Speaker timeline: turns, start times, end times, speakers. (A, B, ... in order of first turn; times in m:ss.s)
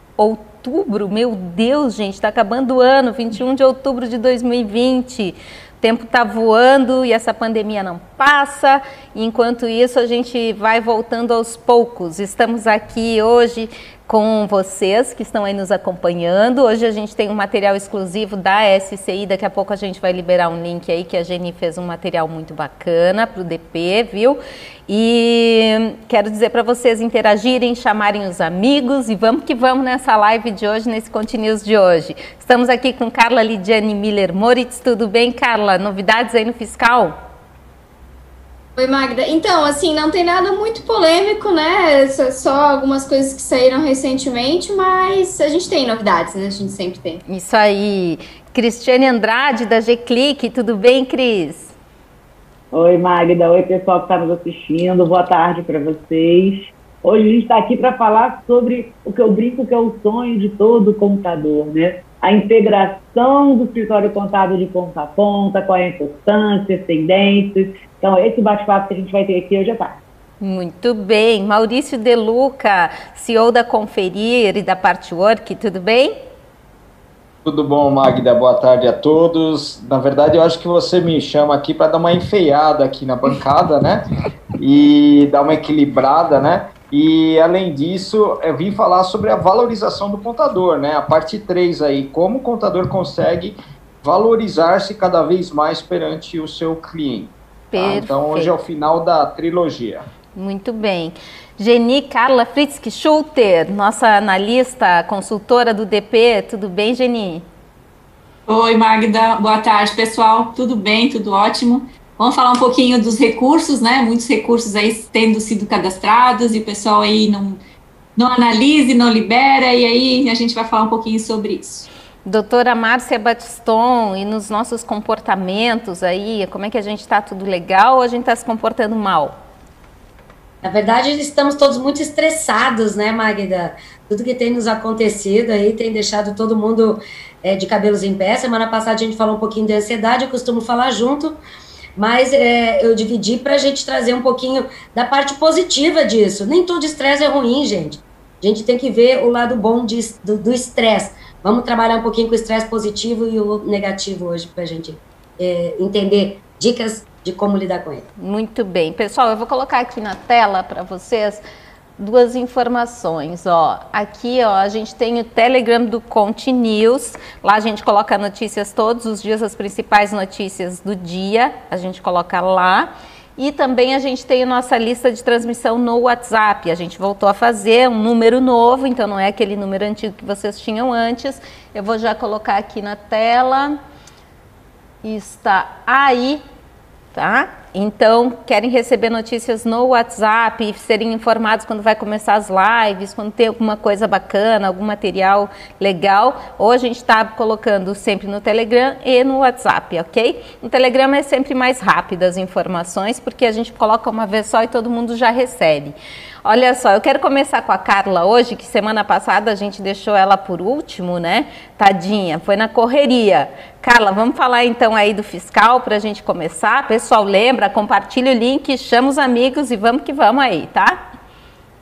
0:00.2-0:37.1 A
0:38.8-0:47.2 B
0:47.2-0:51.7 A
0:52.7-1:10.0 C
1:10.4-1:16.1 A
1:17.4-1:24.0 D
1:24.6-1:40.0 D
1:37.7-1:38.5 A
1:40.4-1:47.4 A
1:48.5-1:57.6 E
1:58.2-2:01.9 E
2:02.2-2:09.3 A
2:10.6-2:21.4 F
2:22.0-2:38.0 F
2:38.2-2:41.4 A
2:42.0-3:03.8 A
3:05.0-3:06.4 A
3:07.1-3:25.9 A
3:26.4-3:41.0 A